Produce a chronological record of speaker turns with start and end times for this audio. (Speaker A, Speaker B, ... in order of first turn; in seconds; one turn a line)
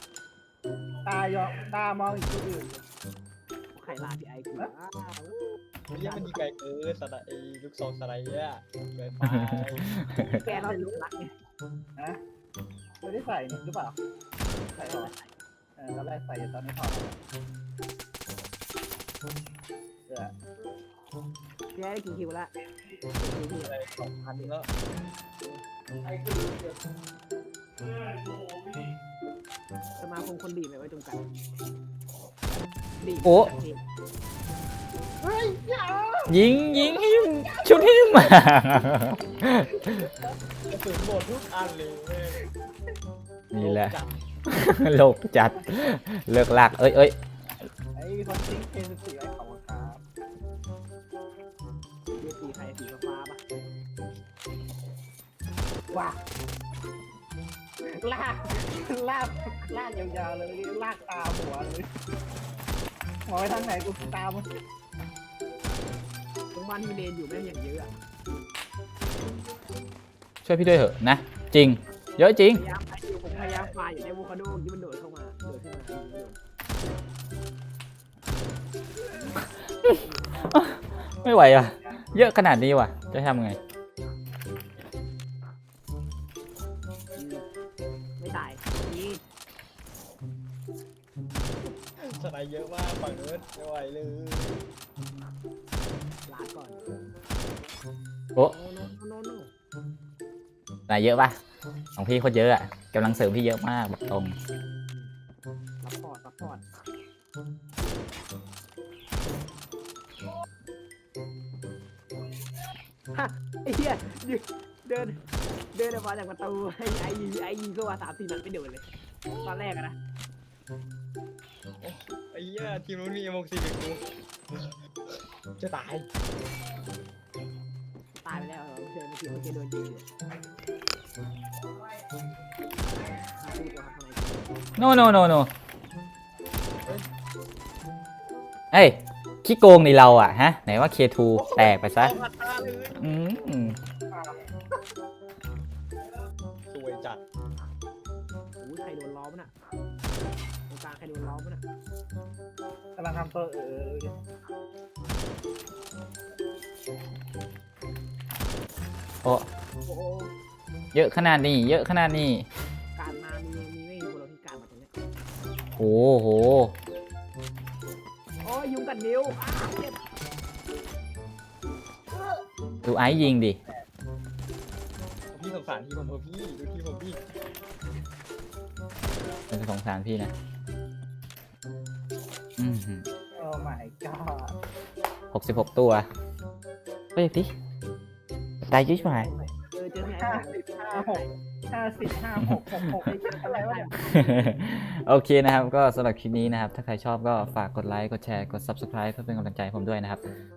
Speaker A: 1.1-2.8
Speaker B: 3.7-6.4
Speaker C: 5.9-10.1
Speaker B: 10.1-11.3
Speaker A: 10.6-11.0
Speaker A: 13.0-14.0
Speaker A: 14.7-15.1
Speaker B: 14.8-15.3
Speaker A: 15.8-17.2
Speaker A: 20.1-20.3
Speaker B: 21.7-22.5
Speaker B: 23.2-23.8
Speaker C: 23.5-24.7
Speaker B: 30.0-31.2
Speaker B: 33.0-33.8
Speaker D: 33.2-33.5
Speaker A: 35.2-38.4
Speaker D: 36.3-40.1
Speaker C: 40.7-42.4
Speaker D: 43.5-44.0
Speaker C: 43.6-44.1
Speaker D: 44.5-47.1
Speaker A: 48.0-50.0
Speaker B: 52.1-53.4
Speaker A: 55.9-56.2
Speaker A: 57.9-61.9
Speaker C: 62.4-62.7
Speaker A: 63.3-64.5
Speaker B: 66.5-68.0
Speaker D: 70.5-72.6
Speaker B: 72.5-76.4
Speaker B: 79.8-80.5
Speaker D: 81.2-83.6
Speaker B: 87.2-87.5
Speaker B: 88.2-89.2
Speaker C: 92.0-94.7
Speaker B: 96.3-96.8
Speaker B: 98.4-99.5
Speaker D: 100.9-101.4
Speaker D: 102.0-104.3
Speaker B: 105.8-106.6
Speaker B: 113.1-118.9
Speaker B: 119.4-120.0
Speaker C: 121.8-124.1
Speaker C: 125.6-126.1
Speaker B: 128.2-130.1
Speaker B: 133.2-134.6
Speaker D: 134.8-135.5
Speaker D: 138.7-142.2
Speaker C: 141.4-143.0
Speaker D: 143.0-143.8
Speaker A: 144.1-144.4
Speaker C: 146.7-147.2
Speaker B: 148.6-149.5
Speaker B: 150.7-151.6
Speaker A: 153.0-154.2
Speaker D: 159.2-159.5
Speaker B: 159.8-160.3
Speaker D: 160.9-162.5
Speaker B: 162.9-164.9
Speaker D: 165.8-166.8
Speaker B: 168.4-170.0
Speaker D: 172.8-173.6
Speaker A: 173.2-173.9
Speaker C: 175.3-177.2
Speaker D: 179.5-180.3
Speaker D: 182.6-183.1
Speaker A: 183.4-184.6
Speaker D: 185.3-186.1
Speaker D: 187.2-187.5
Speaker D: 188.7-189.3
Speaker B: 188.9-191.4
Speaker A: 190.1-194.0
Speaker D: 192.4-193.2
Speaker B: 193.1-194.6
Speaker D: 194.0-200.2